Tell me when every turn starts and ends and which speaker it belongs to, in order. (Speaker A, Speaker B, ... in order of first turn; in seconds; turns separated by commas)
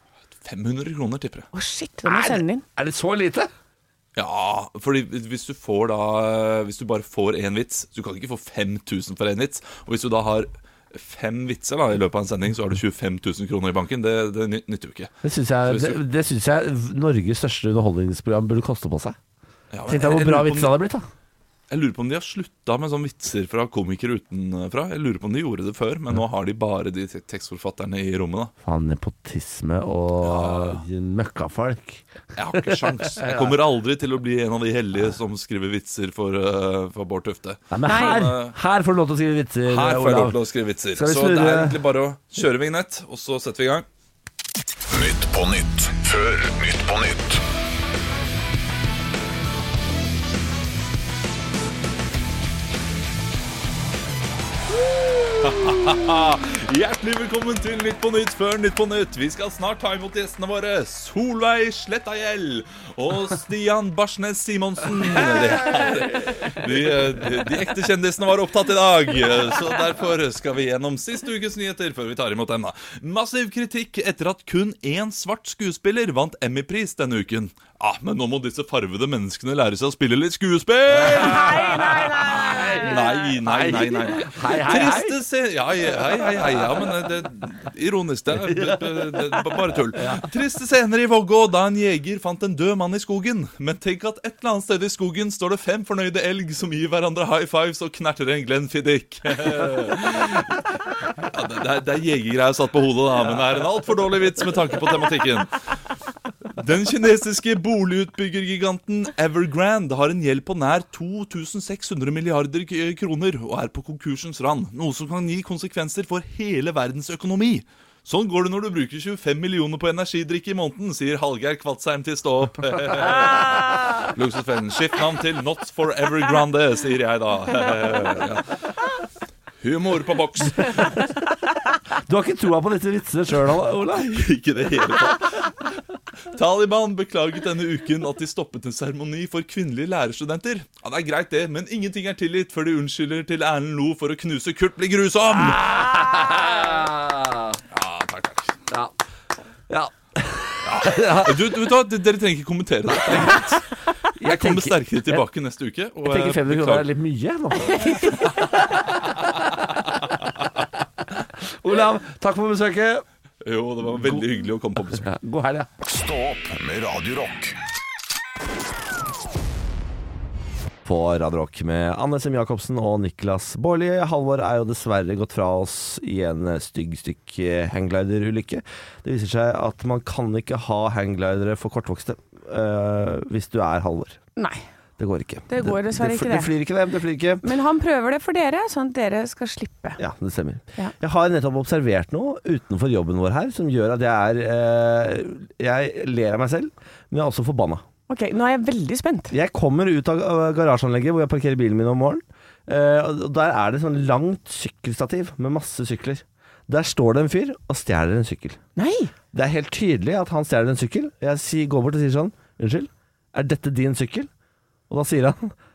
Speaker A: 0.4-1.5, Speaker B: 1.5-2.6, Speaker C: 2.0-3.5, Speaker A: 4.2-15.1, Speaker C: 15.2-19.2, Speaker A: 15.7-16.0, Speaker A: 19.7-20.7, Speaker C: 19.9-21.1, Speaker A: 21.7-28.5, Speaker C: 28.6-33.6, Speaker A: 30.2-30.8, Speaker A: 32.4-38.5, Speaker C: 37.7-40.4, Speaker B: 37.9-38.2, Speaker A: 39.7-43.9, Speaker C: 40.9-41.8, Speaker D: 44.9-47.4, Speaker A: 54.8-100.7, Speaker C: 81.0-85.2, Speaker B: 81.3-83.0, Speaker C: 88.4-90.2, Speaker A: 101.2-105.6, Speaker A: 106.6-128.6, Speaker A: 129.6-131.1, Speaker C: 131.9-134.3, Speaker A: 134.0-135.6, Speaker A: 136.3-145.8, Speaker C: 145.3-147.6, Speaker A: 147.7-148.6, Speaker C: 148.7-148.9, Speaker C: 149.7-151.5, Speaker A: 150.7-156.9, Speaker C: 154.2-155.2, Speaker C: 156.1-160.0, Speaker B: 157.8-158.4, Speaker C: 161.4-163.1, Speaker A: 163.4-165.1, Speaker C: 163.9-164.2, Speaker C: 164.9-165.7, Speaker D: 165.8-167.6, Speaker C: 170.8-184.2, Speaker B: 184.4-184.7, Speaker C: 185.0-187.4, Speaker B: 185.5-186.5, Speaker B: 187.4-190.0, Speaker C: 190.0-197.8, Speaker B: 198.1-199.3, Speaker C: 199.3-208.6, Speaker B: 208.8-209.1, Speaker C: 209.3-214.3, Speaker C: 214.9-215.5